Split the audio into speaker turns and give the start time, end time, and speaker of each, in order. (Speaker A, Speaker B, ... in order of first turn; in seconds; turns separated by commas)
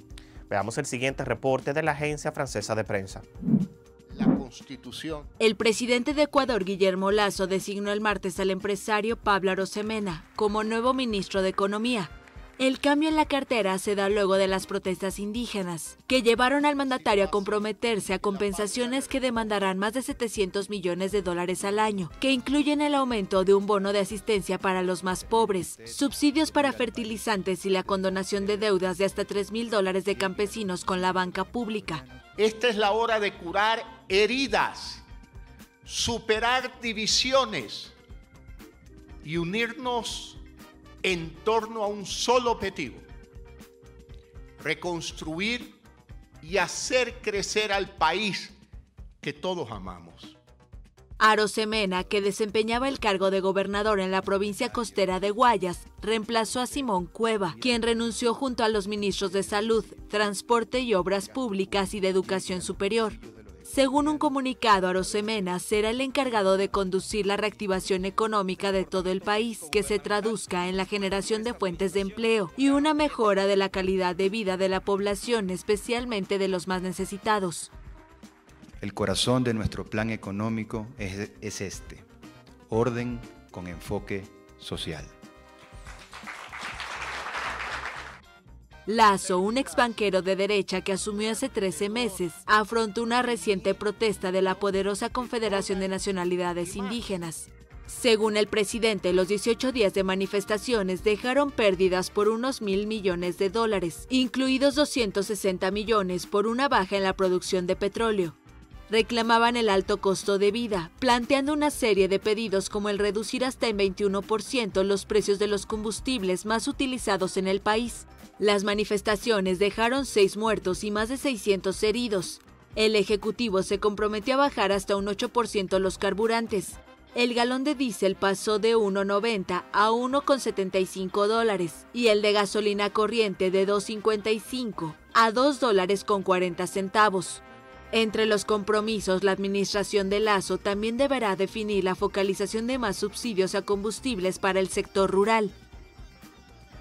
Speaker A: 0.5-3.2, Speaker B: 4.1-5.3, Speaker C: 5.4-32.0, Speaker B: 16.8-19.8, Speaker D: 25.1-28.8, Speaker D: 30.1-32.3, Speaker B: 32.4-35.0, Speaker B: 35.9-38.0, Speaker B: 39.2-40.4, Speaker B: 41.0-43.0, Speaker B: 44.6-45.8, Speaker B: 46.4-48.6, Speaker B: 49.2-50.4, Speaker C: 51.2-77.7, Speaker D: 54.6-55.2, Speaker D: 56.5-56.9, Speaker D: 57.5-58.1, Speaker D: 59.2-59.5, Speaker D: 61.7-64.3, Speaker B: 70.9-73.2, Speaker D: 78.8-82.1, Speaker D: 82.7-85.1, Speaker C: 88.9-108.4, Speaker B: 89.3-90.0, Speaker B: 91.2-92.2, Speaker B: 93.3-93.8, Speaker B: 94.3-94.6, Speaker B: 95.2-97.0, Speaker C: 108.9-145.6